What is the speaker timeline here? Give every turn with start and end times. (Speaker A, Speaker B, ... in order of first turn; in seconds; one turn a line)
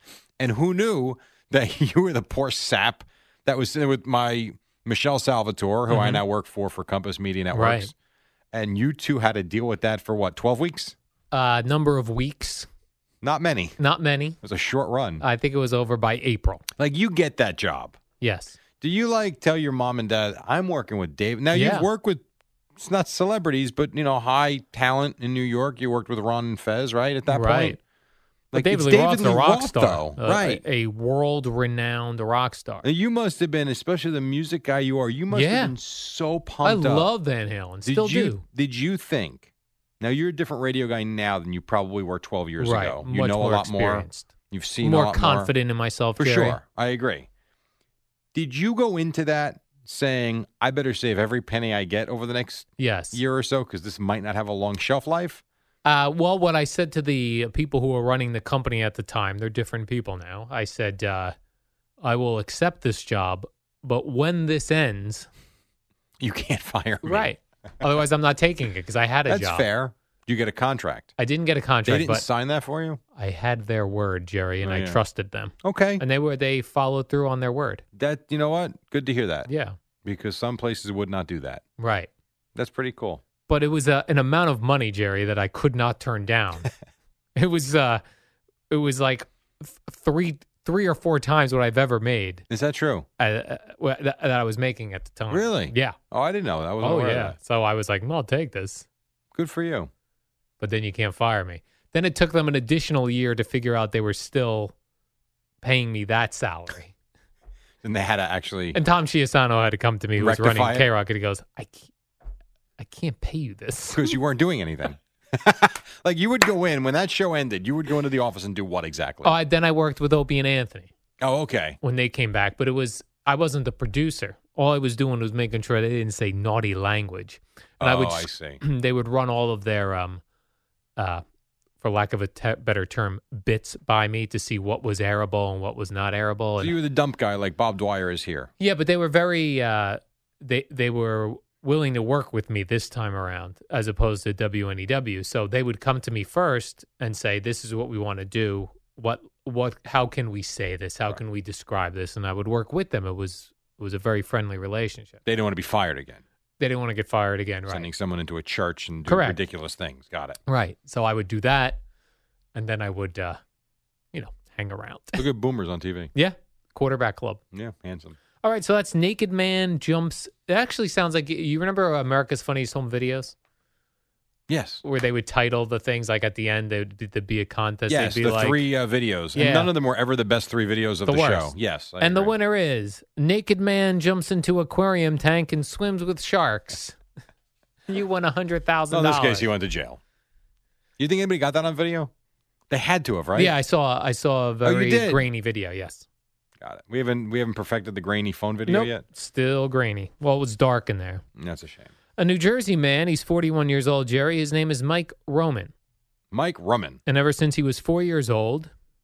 Speaker A: 0.4-7.9
Speaker B: 5.9-6.2
Speaker B: 7.5-7.9
Speaker A: 8.5-10.9
Speaker B: 11.3-12.7
Speaker A: 13.2-13.8
Speaker B: 13.8-14.4
Speaker A: 14.4-15.2
Speaker B: 15.2-16.6
Speaker A: 16.8-18.0
Speaker B: 18.2-18.6
Speaker A: 18.8-22.2
Speaker B: 21.5-21.9
Speaker A: 22.8-27.8
Speaker B: 27.3-27.8
Speaker A: 28.5-30.6
Speaker B: 28.5-32.9
Speaker A: 32.8-37.1
Speaker B: 35.3-35.7
Speaker B: 36.6-38.4
Speaker A: 37.8-39.5
Speaker A: 40.0-45.5
Speaker B: 42.6-44.3
Speaker B: 44.8-46.6
Speaker A: 46.2-47.3
Speaker A: 48.3-55.4
Speaker B: 52.8-53.2
Speaker B: 55.8-61.3
Speaker B: 62.0-65.3
Speaker A: 66.2-67.3
Speaker B: 67.0-69.6
Speaker A: 69.3-71.1
Speaker B: 71.2-72.2
Speaker A: 71.8-73.0
Speaker B: 73.2-77.8
Speaker A: 74.6-75.0
Speaker A: 75.6-76.0
Speaker A: 78.0-79.5
Speaker B: 79.5-79.8
Speaker A: 80.0-81.6
Speaker B: 81.8-82.1
Speaker A: 82.5-83.2
Speaker B: 83.5-86.7
Speaker B: 87.3-88.0
Speaker B: 88.7-92.4
Speaker A: 92.5-93.1
Speaker B: 93.2-96.0
Speaker A: 95.3-97.3
Speaker B: 96.8-98.8
Speaker A: 99.3-99.9
Speaker B: 100.6-104.7
Speaker B: 105.6-106.9
Speaker A: 107.8-108.8
Speaker B: 108.7-111.9
Speaker A: 110.2-110.9
Speaker B: 112.8-114.2
Speaker A: 113.9-119.4
Speaker B: 119.2-120.9
Speaker A: 121.2-121.8
Speaker B: 121.8-130.2
Speaker A: 127.8-128.6
Speaker B: 131.0-131.2
Speaker B: 131.8-136.7
Speaker A: 136.6-138.5
Speaker B: 138.6-155.2
Speaker A: 155.2-156.2
Speaker B: 156.6-157.9
Speaker A: 157.7-160.4
Speaker B: 159.1-159.4
Speaker B: 160.5-161.8
Speaker B: 162.5-163.4
Speaker B: 164.1-165.2
Speaker A: 165.2-166.1
Speaker B: 166.1-167.4
Speaker A: 167.5-168.2
Speaker B: 168.4-173.3
Speaker A: 174.5-174.8
Speaker B: 174.8-178.6
Speaker A: 177.9-182.3
Speaker B: 179.3-179.7
Speaker B: 181.1-187.0
Speaker B: 187.9-189.5
Speaker A: 188.9-190.0
Speaker A: 191.0-192.1
Speaker A: 192.7-193.5
Speaker B: 193.3-196.1
Speaker A: 194.6-195.2
Speaker A: 196.6-199.0
Speaker B: 198.7-201.2
Speaker A: 201.4-201.9
Speaker B: 202.2-205.7
Speaker A: 206.3-207.0
Speaker B: 207.1-208.7